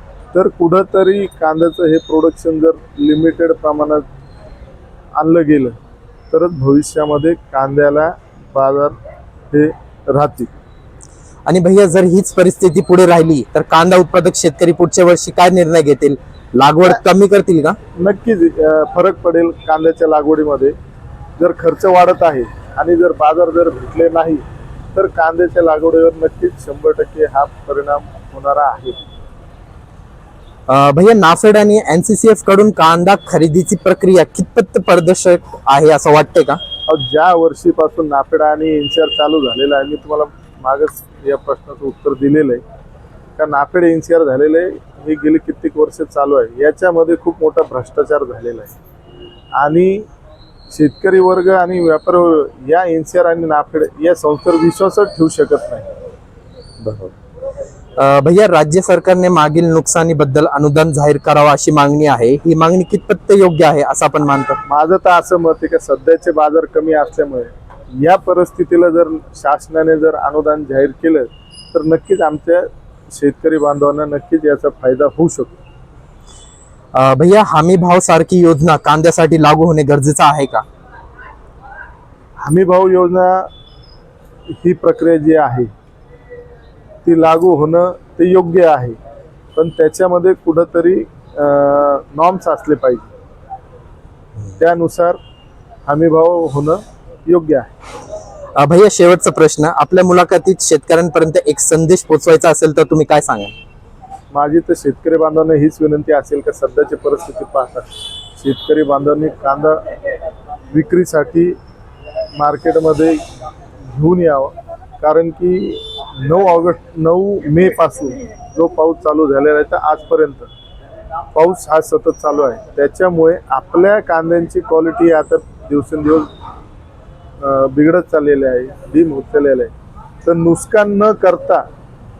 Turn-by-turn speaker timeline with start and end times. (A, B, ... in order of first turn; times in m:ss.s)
0:00.3-0:04.0 A
0:05.2-0:05.7 A
0:06.3-0:09.0 A
0:09.5-0:10.5 A
0:11.5-0:17.8 B
0:18.0-0:20.7 A
0:21.4-0:24.4 A
0:24.9-0:29.0 A
0:30.7-0:36.6 B
0:36.9-0:42.6 A
0:43.4-0:48.8 A
0:49.6-0:50.0 A
0:50.7-0:55.9 A
0:56.8-0:57.1 B
0:58.0-1:04.6 B
1:04.7-1:15.5 A
1:16.9-1:20.6 B
1:22.4-1:23.5 A
1:24.5-1:25.7 A
1:27.0-1:29.0 A
1:29.6-1:33.1 A
1:34.6-1:35.2 A
1:35.8-1:37.7 A
1:38.6-1:43.5 B
1:44.3-1:47.9 A
1:48.4-1:49.8 A
1:50.7-1:51.5 A
1:52.4-1:53.2 A
1:53.9-2:00.5 A
2:01.3-2:06.3 A
2:07.4-2:09.7 A
2:10.2-2:11.6 A